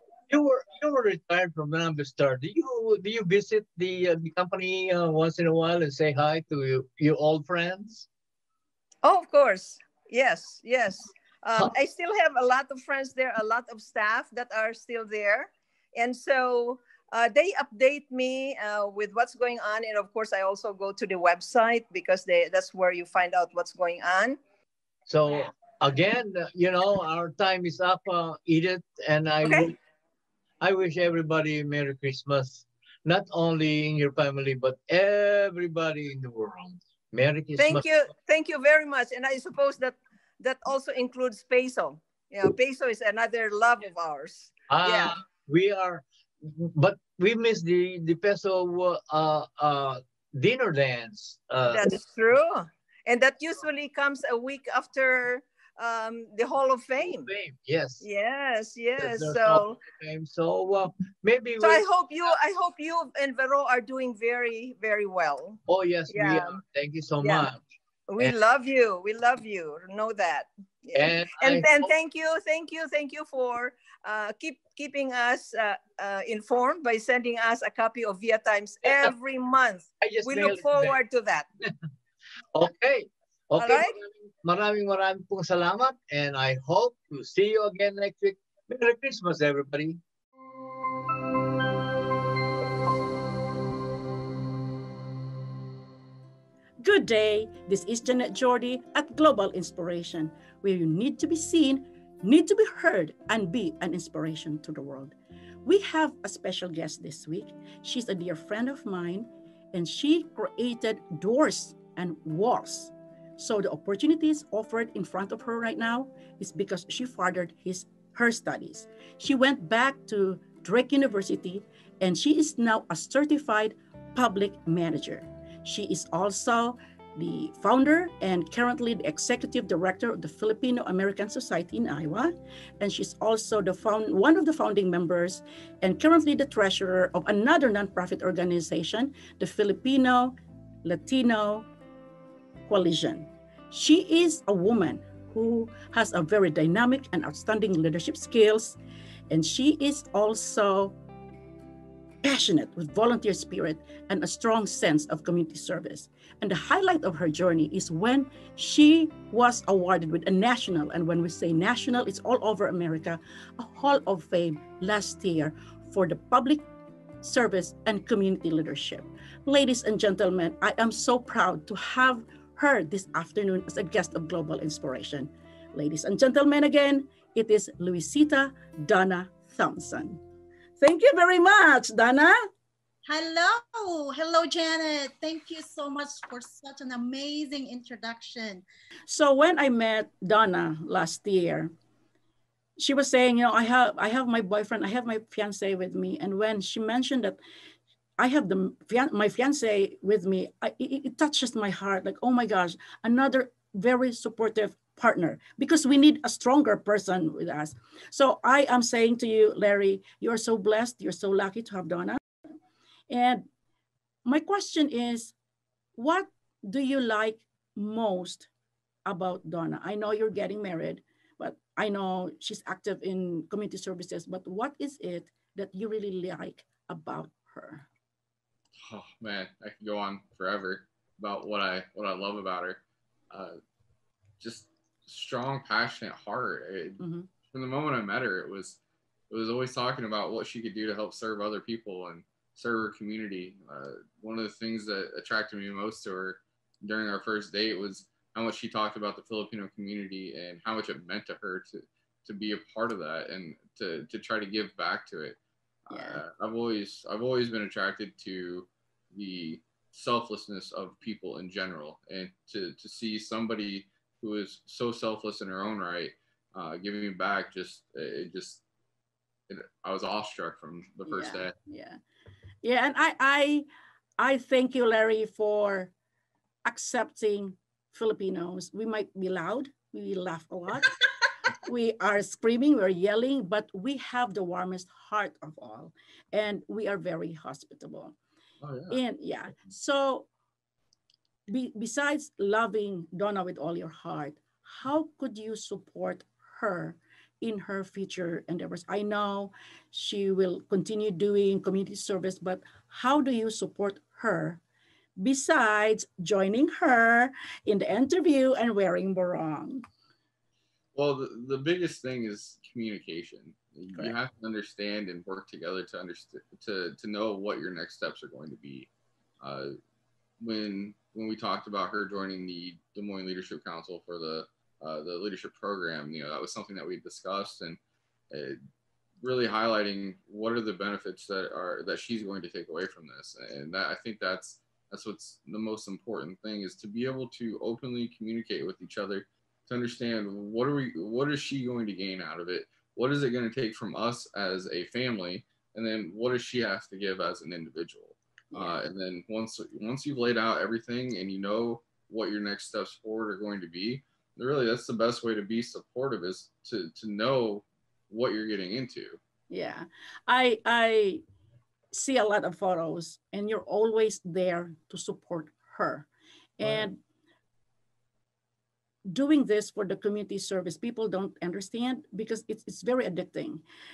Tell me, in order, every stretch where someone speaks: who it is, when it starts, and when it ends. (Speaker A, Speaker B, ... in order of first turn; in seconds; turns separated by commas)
Speaker A: 0.3-8.1, Speaker B: 9.0-24.4, Speaker A: 25.1-29.8, Speaker A: 30.6-38.1, Speaker B: 37.6-45.1, Speaker A: 44.7-52.0, Speaker B: 51.7-57.3, Speaker A: 57.0-58.0, Speaker B: 58.0-59.8, Speaker A: 59.0-61.9, Speaker B: 61.6-66.6, Speaker A: 65.7-67.6, Speaker B: 67.2-67.5, Speaker B: 68.1-81.5, Speaker A: 70.9-71.9, Speaker A: 78.8-79.1, Speaker A: 80.0-81.0, Speaker A: 82.5-90.0, Speaker B: 83.6-83.9, Speaker C: 96.8-141.7, Speaker C: 142.7-148.8, Speaker C: 149.3-151.0, Speaker C: 152.2-166.7, Speaker C: 167.2-180.2, Speaker C: 180.8-182.5, Speaker D: 183.1-188.6, Speaker C: 189.1-191.7, Speaker C: 192.8-197.4, Speaker C: 198.2-212.2, Speaker C: 213.1-213.5, Speaker C: 214.3-215.3, Speaker C: 216.0-218.5, Speaker C: 219.1-227.8, Speaker E: 228.8-233.6, Speaker E: 234.4-255.4, Speaker C: 237.0-237.3, Speaker E: 255.9-268.6, Speaker C: 255.9-256.2, Speaker E: 269.5-271.6, Speaker C: 271.1-272.0, Speaker C: 272.6-273.7, Speaker C: 274.2-275.9, Speaker C: 276.7-280.9, Speaker C: 281.6-288.1, Speaker E: 288.7-289.0, Speaker C: 288.9-290.3, Speaker C: 291.5-304.6, Speaker C: 305.2-309.8, Speaker E: 310.9-318.9, Speaker E: 319.4-319.8, Speaker E: 320.4-327.8, Speaker E: 328.3-328.6, Speaker E: 329.2-359.2, Speaker C: 348.5-348.8, Speaker C: 359.5-361.2, Speaker C: 361.9-366.1, Speaker C: 366.6-367.0, Speaker C: 369.1-373.6